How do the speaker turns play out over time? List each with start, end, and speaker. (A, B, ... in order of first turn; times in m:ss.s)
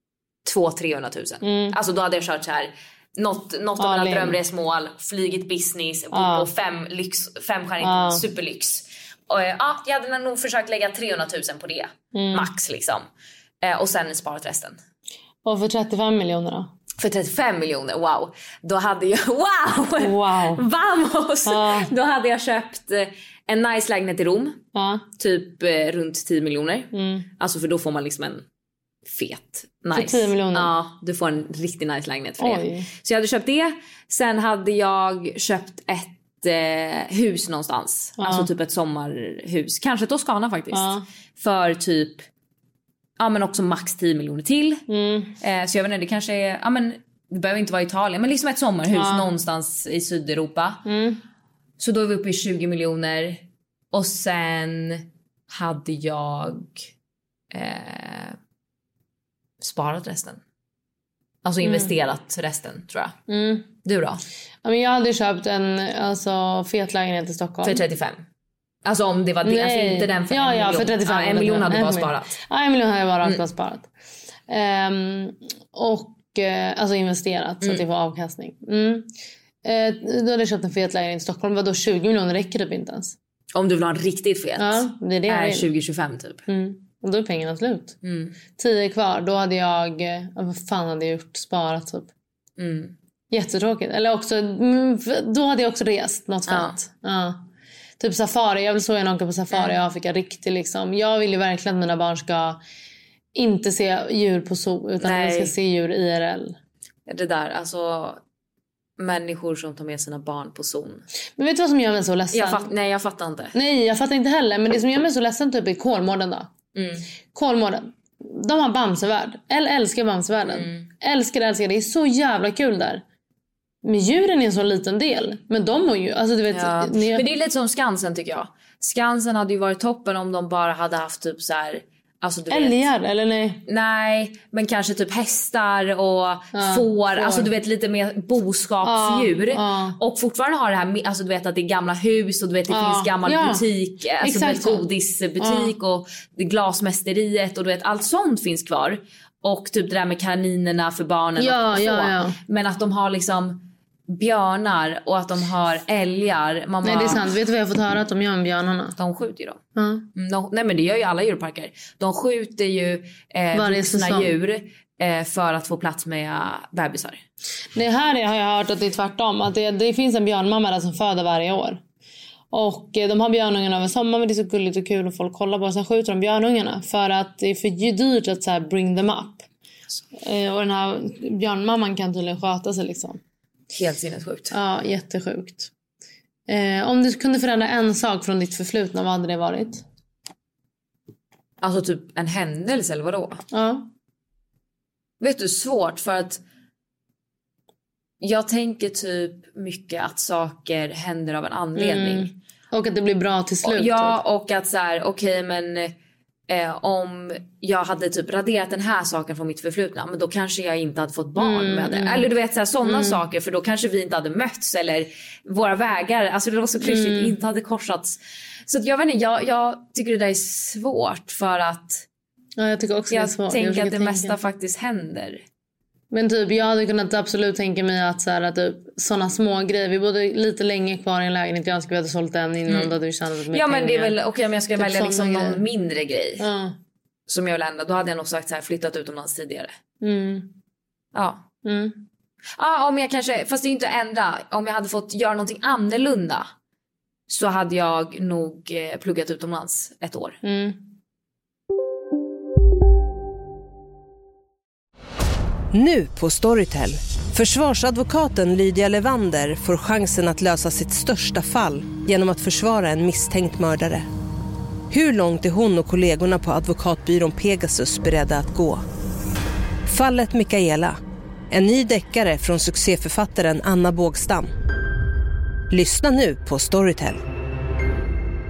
0:00.4-0:13.0 A
0:01.4-0:01.8 B
0:03.8-0:04.4 B
0:06.1-0:06.5 B
0:07.8-0:08.2 B
0:12.1-0:12.5 B
0:13.6-0:14.8 A
0:15.4-0:16.7 B
0:17.0-0:24.6 A
0:20.0-0:20.6 B
0:21.4-0:21.9 B
0:24.7-0:25.1 B
0:25.2-0:28.4 A
0:26.9-0:27.3 B
0:29.1-0:42.2 A
0:29.9-0:30.7 B
0:32.4-0:32.9 B
0:38.2-0:38.5 B
0:40.7-0:41.0 B
0:43.2-0:44.8 A
0:44.9-0:45.4 B
0:45.4-0:50.8 A
0:48.9-0:49.3 B
0:50.9-0:51.2 B
0:51.8-0:56.8 A
0:57.5-0:58.4 A
0:59.6-1:00.4 A
1:01.4-1:03.1 A
1:01.6-1:01.9 B
1:03.3-1:03.7 B
1:03.8-1:04.2 A
1:04.6-1:07.8 B
1:07.6-1:08.2 A
1:08.8-1:12.3 A
1:09.4-1:13.9 B
1:14.5-1:19.1 B
1:19.6-1:23.2 B
1:23.5-1:26.4 A
1:24.6-1:25.7 B
1:26.5-1:28.0 B
1:28.0-1:28.4 A
1:28.6-1:32.1 B
1:32.6-1:32.9 A
1:33.3-1:37.4 B
1:36.5-1:36.8 A
1:38.0-1:42.6 B
1:39.5-1:39.8 A
1:43.4-1:46.6 B
1:45.0-1:45.5 A
1:47.1-1:48.2 A
1:49.0-1:51.0 A
1:51.4-1:52.7 B
1:52.3-1:53.5 A
1:53.5-1:56.5 B
1:56.8-1:57.1 A
1:57.3-2:03.0 B
2:00.5-2:00.9 A
2:03.8-2:07.3 B
2:06.5-2:12.9 A
2:12.5-2:13.6 B
2:13.7-2:37.3 A
2:16.5-2:17.5 B
2:18.8-2:20.0 B
2:22.7-2:23.7 B
2:24.2-2:25.7 B
2:31.4-2:32.4 B
2:36.8-2:39.0 B
2:39.0-2:39.6 A
2:39.8-2:40.1 B
2:40.2-2:47.2 A
2:43.5-2:44.4 B
2:47.8-2:51.8 B
2:52.5-2:59.5 B
3:00.2-3:03.2 B
3:03.7-3:04.6 A
3:04.5-3:05.7 B
3:06.5-3:09.8 B
3:11.6-3:13.4 A
3:13.5-3:13.9 B
3:15.2-3:16.4 A
3:18.2-3:22.3 A
3:21.8-3:24.2 B
3:23.6-3:25.9 A
3:26.5-3:42.0 A
3:31.4-3:32.3 B
3:32.8-3:33.2 B
3:36.8-3:37.4 B
3:42.6-3:44.4 B
3:43.1-3:45.4 A
3:46.1-3:54.2 B
3:52.7-3:52.9 A
3:53.5-3:56.5 A
3:54.8-3:55.6 B
3:56.4-3:56.8 B
3:57.3-3:59.7 A
4:00.0-4:00.5 B
4:01.1-4:01.4 A
4:01.6-4:02.0 B
4:02.6-4:06.4 A
4:07.3-4:10.4 A
4:10.4-4:10.8 B
4:15.7-4:24.0 C
4:24.9-4:28.8 C
4:29.9-4:31.0 C
4:31.5-4:34.5 C
4:35.7-4:37.2 C